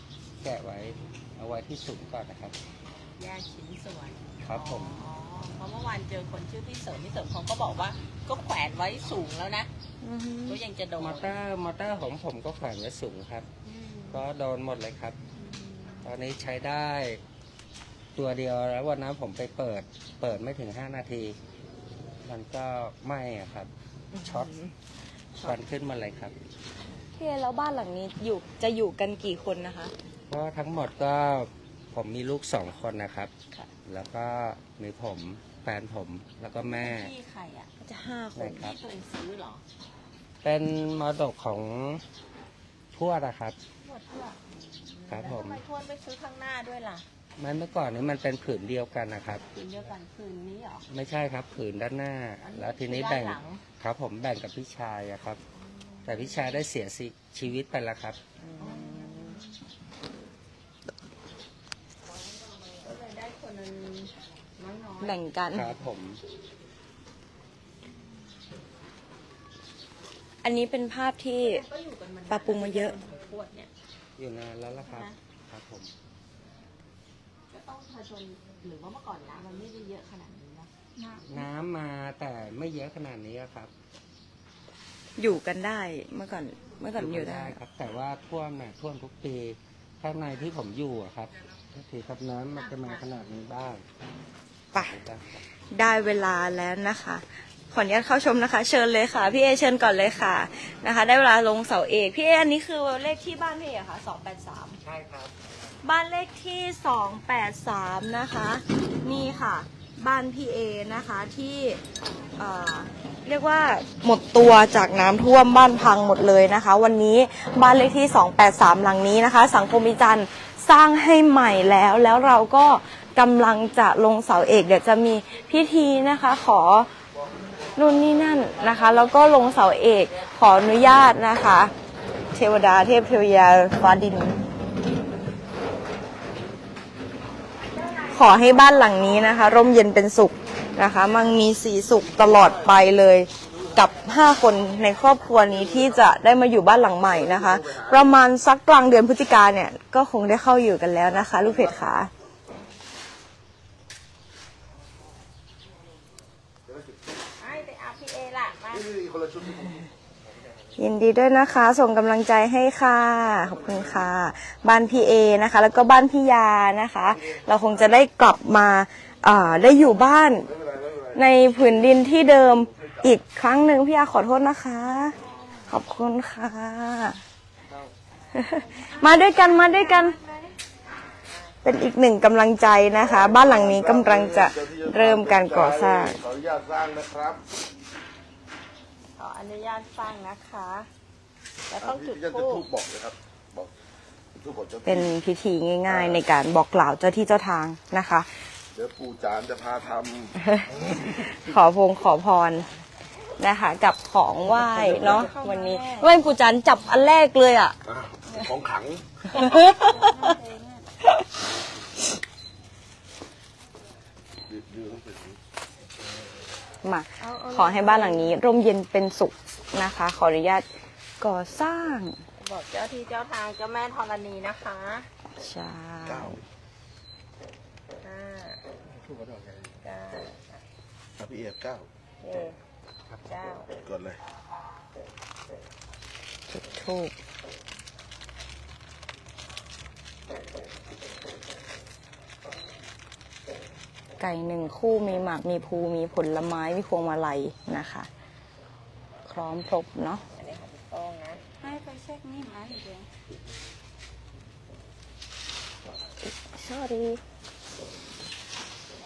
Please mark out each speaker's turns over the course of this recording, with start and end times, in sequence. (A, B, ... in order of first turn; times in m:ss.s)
0:00.4-0:02.5 A
0:03.2-0:09.7 B
0:04.4-0:05.0 A
0:10.0-0:10.6 C
0:10.5-0:11.4 B
0:11.0-0:13.5 A
0:13.6-0:14.2 B
0:14.1-0:15.2 A
0:15.3-0:16.1 B
0:16.0-0:17.2 A
0:18.1-0:21.4 A
0:22.2-0:23.7 A
0:24.1-0:24.7 C
0:24.2-0:24.5 A
0:25.4-0:26.3 A
0:27.2-0:29.9 C
0:30.3-0:33.3 A
0:33.8-0:37.1 A
0:36.5-0:37.7 B
0:37.8-0:38.7 C
0:38.4-0:38.7 A
0:38.5-0:39.6 B
0:40.4-0:42.0 A
0:42.9-0:43.6 A
0:43.8-0:47.0 B
0:45.1-0:45.6 A
0:47.4-0:49.4 A
0:49.4-0:50.9 B
0:50.9-0:55.4 A
0:52.4-0:53.6 B
0:55.7-0:56.6 B
0:56.0-0:58.2 A
0:58.4-0:59.4 C
0:58.6-0:59.5 B
1:02.8-1:05.2 B
1:05.0-1:05.7 C
1:05.5-1:06.2 A
1:10.4-1:11.6 C
1:11.4-1:13.7 B
1:12.3-1:12.9 C
1:14.2-1:15.9 A
1:14.8-1:15.2 B
1:17.5-1:20.7 B
1:21.0-1:21.3 D
1:21.3-1:23.7 A
1:25.2-1:27.6 C
1:26.9-1:33.8 A
1:32.5-1:33.1 B
1:34.8-1:35.2 A
1:35.7-1:44.8 C
1:44.8-1:45.3 A
1:45.8-1:51.8 C
1:52.4-2:06.9 C
2:07.8-2:11.7 C
2:12.3-2:14.4 C
2:18.1-2:32.1 C
2:22.2-2:22.6 E
2:27.1-2:28.1 E
2:31.3-2:31.7 E
2:36.7-2:37.0 E
2:37.4-2:38.9 B
2:38.7-2:39.8 E
2:40.8-2:50.5 C
2:50.5-2:53.0 E
2:51.1-2:55.2 C
2:55.2-2:55.7 B
2:55.7-2:57.2 C
2:58.3-3:00.2 C
2:58.9-3:00.5 B
3:01.2-3:01.5 B
3:01.6-3:06.2 C
3:03.0-3:07.4 E
3:09.2-3:10.9 B
3:11.7-3:12.6 B
3:11.8-3:13.7 E
3:14.4-3:15.1 E
3:14.8-3:18.3 C
3:15.9-3:16.2 E
3:18.7-3:21.3 E
3:20.4-3:22.7 C
3:23.4-3:27.8 C
3:24.6-3:25.2 E
3:24.8-3:26.1 D
3:27.8-3:29.3 E
3:29.3-3:30.2 C
3:29.4-3:30.8 D
3:34.5-3:35.4 E
3:36.8-3:40.6 C
3:37.2-3:38.3 B
3:41.2-3:42.2 C
3:42.4-3:45.1 B
3:45.4-3:46.4 C
3:46.0-3:46.4 E
3:48.0-3:48.6 B
3:49.8-3:50.6 B
3:51.2-3:51.9 E
3:52.2-3:52.6 B
3:53.2-3:53.7 B
3:53.8-3:54.2 E
3:56.5-3:57.1 C
4:04.2-4:08.1 C
4:09.3-4:10.2 C
4:10.4-4:11.4 B
4:11.6-4:13.1 D
4:16.4-4:17.2 C